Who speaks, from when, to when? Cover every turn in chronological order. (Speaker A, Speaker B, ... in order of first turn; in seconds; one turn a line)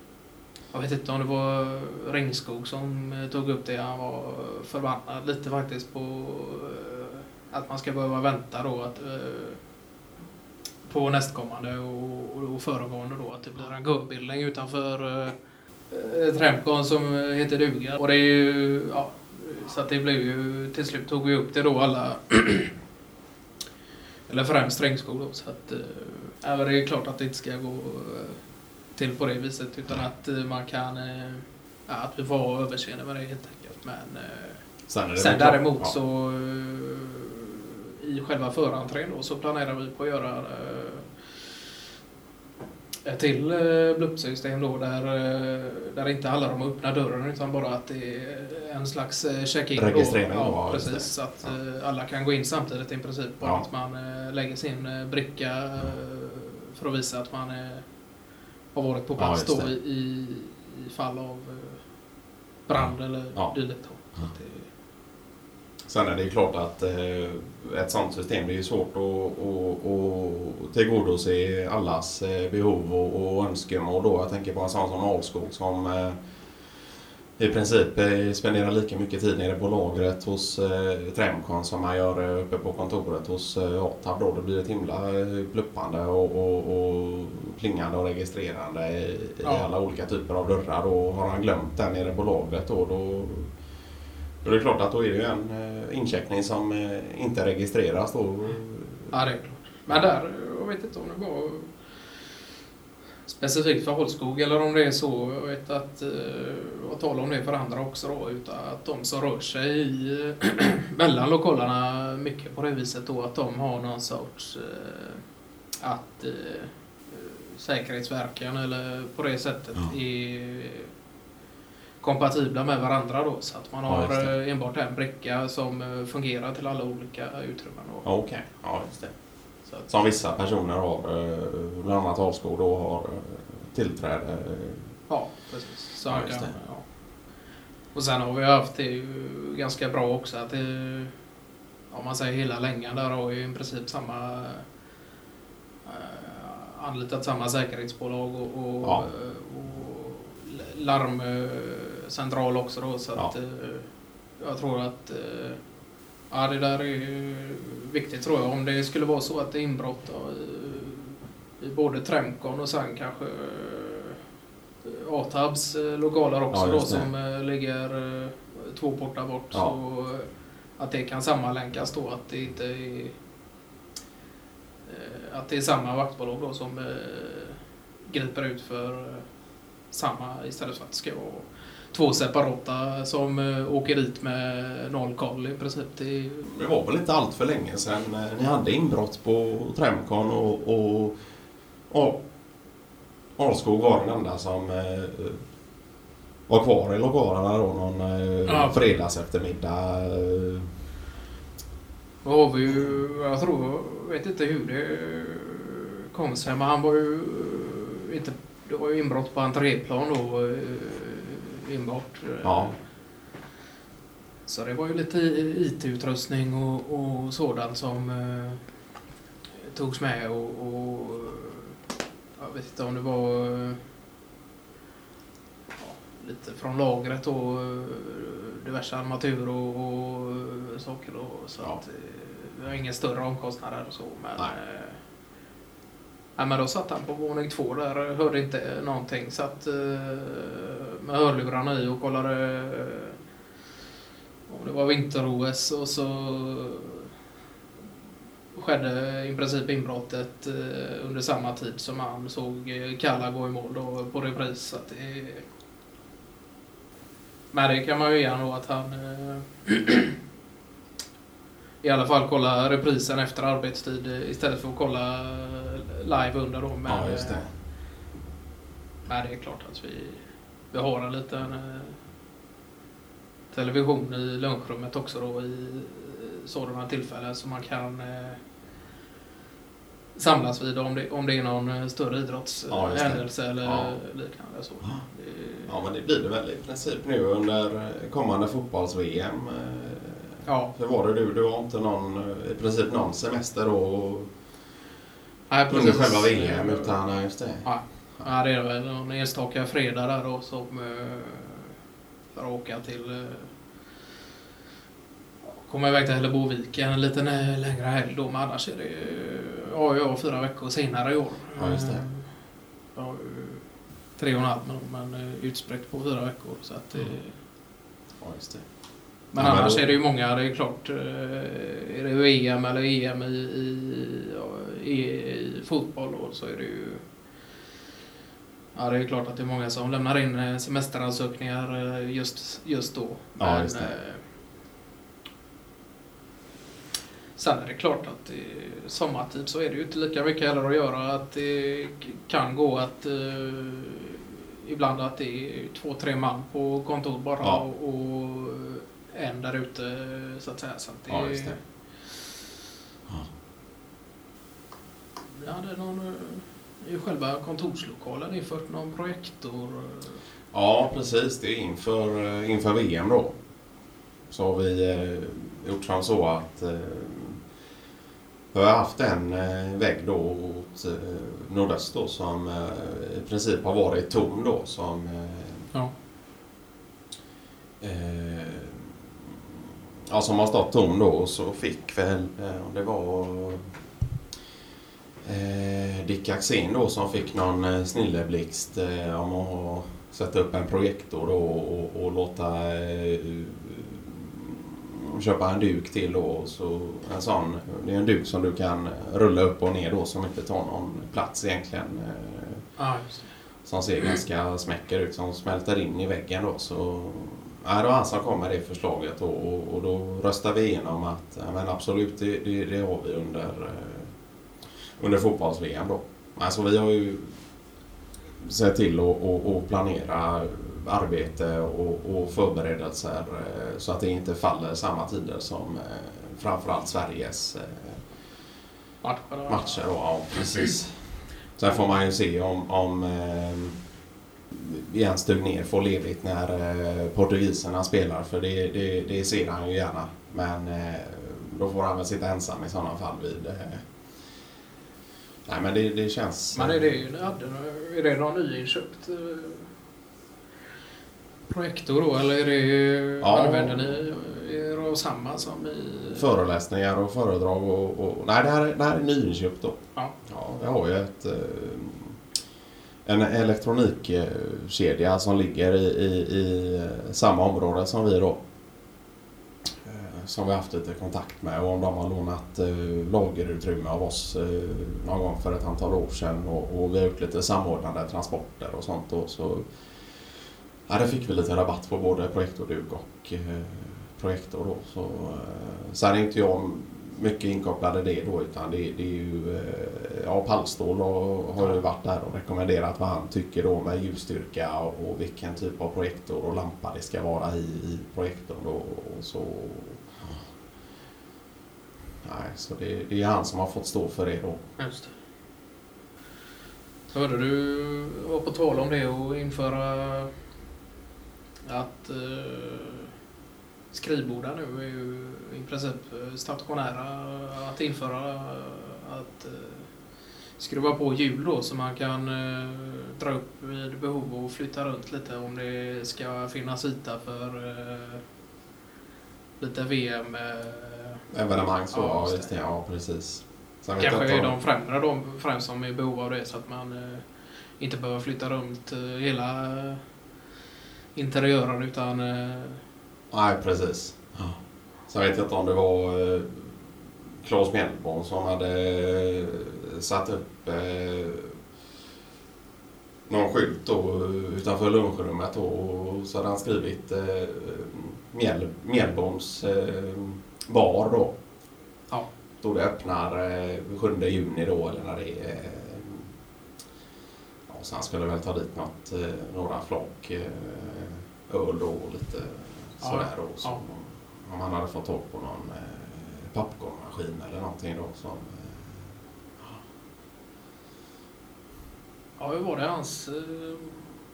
Speaker A: 0.7-9.6
Speaker A: 10.8-15.4
Speaker A: 15.9-22.8
Speaker A: 24.3-28.4
Speaker A: 28.9-34.6
Speaker B: 34.9-35.9
Speaker A: 35.2-37.5
Speaker A: 38.0-41.5
Speaker A: 43.0-58.0
Speaker B: 49.8-51.5
Speaker A: 58.7-61.9
Speaker B: 59.2-59.7
Speaker A: 62.6-64.7
Speaker B: 62.8-63.6
Speaker B: 65.9-76.2
Speaker B: 77.4-93.5
Speaker A: 89.4-89.7
Speaker B: 94.4-99.1
Speaker A: 99.1-102.2
Speaker A: 103.3-115.3
Speaker A: 115.8-120.9
Speaker A: 122.0-128.1
Speaker B: 123.9-124.3
Speaker B: 128.0-135.0
Speaker A: 129.7-129.9
Speaker A: 135.1-137.4
Speaker B: 136.1-136.6
Speaker A: 137.9-141.2
Speaker A: 141.9-144.7
Speaker A: 145.8-155.6
Speaker A: 156.3-164.2
Speaker A: 164.8-173.2
Speaker B: 166.5-167.1
Speaker A: 174.9-179.3
Speaker A: 179.9-186.4
Speaker B: 186.4-191.2
Speaker B: 191.9-192.2
Speaker B: 193.4-195.4
Speaker B: 196.5-200.7
Speaker A: 198.5-199.0
Speaker A: 202.2-212.8
Speaker B: 212.4-212.8
Speaker A: 214.5-218.7
Speaker A: 219.7-221.8
Speaker A: 222.4-223.8
Speaker A: 225.8-235.0
Speaker A: 236.4-243.2
Speaker A: 244.5-247.1
Speaker A: 248.5-255.4
Speaker A: 257.5-260.1
Speaker A: 261.8-267.4
Speaker B: 266.9-267.5
Speaker A: 269.1-272.0
Speaker A: 273.5-278.4
Speaker A: 280.1-285.7
Speaker B: 282.7-284.0
Speaker B: 285.7-294.3
Speaker A: 290.5-290.7
Speaker A: 295.5-297.0
Speaker B: 295.7-298.2
Speaker A: 297.6-301.8
Speaker A: 302.3-303.6
Speaker A: 305.6-312.3
Speaker B: 311.6-312.1
Speaker A: 312.9-317.4
Speaker B: 318.2-318.7
Speaker B: 319.3-319.9
Speaker A: 319.3-327.0
Speaker A: 328.8-334.2
Speaker B: 333.4-333.9
Speaker A: 337.4-352.2
Speaker B: 351.1-351.6
Speaker A: 355.4-360.2
Speaker B: 360.5-363.4
Speaker B: 364.3-367.4
Speaker B: 368.5-375.7
Speaker B: 377.8-379.0
Speaker B: 380.1-383.8
Speaker B: 385.2-402.7
Speaker A: 402.8-403.3
Speaker B: 403.6-414.1
Speaker B: 415.0-417.4
Speaker B: 418.4-428.1
Speaker A: 429.0-429.8
Speaker B: 429.5-433.8
Speaker B: 434.5-443.9
Speaker B: 445.5-447.1
Speaker A: 446.6-449.7
Speaker A: 451.5-456.2
Speaker B: 453.2-454.0
Speaker B: 456.1-462.2
Speaker B: 463.1-468.4
Speaker B: 469.8-479.8
Speaker B: 480.9-500.3
Speaker B: 502.2-504.7
Speaker A: 504.8-505.1
Speaker A: 507.1-510.3
Speaker A: 511.6-513.1
Speaker A: 513.9-519.9
Speaker A: 520.6-528.2
Speaker A: 529.6-531.2
Speaker B: 531.3-534.5
Speaker A: 531.9-532.5
Speaker A: 534.0-540.0
Speaker A: 541.1-542.8
Speaker B: 543.3-544.6
Speaker B: 545.1-546.9
Speaker B: 547.4-551.6
Speaker B: 553.3-561.4
Speaker B: 562.6-566.3
Speaker B: 567.7-579.8
Speaker A: 573.0-573.8
Speaker A: 582.4-584.0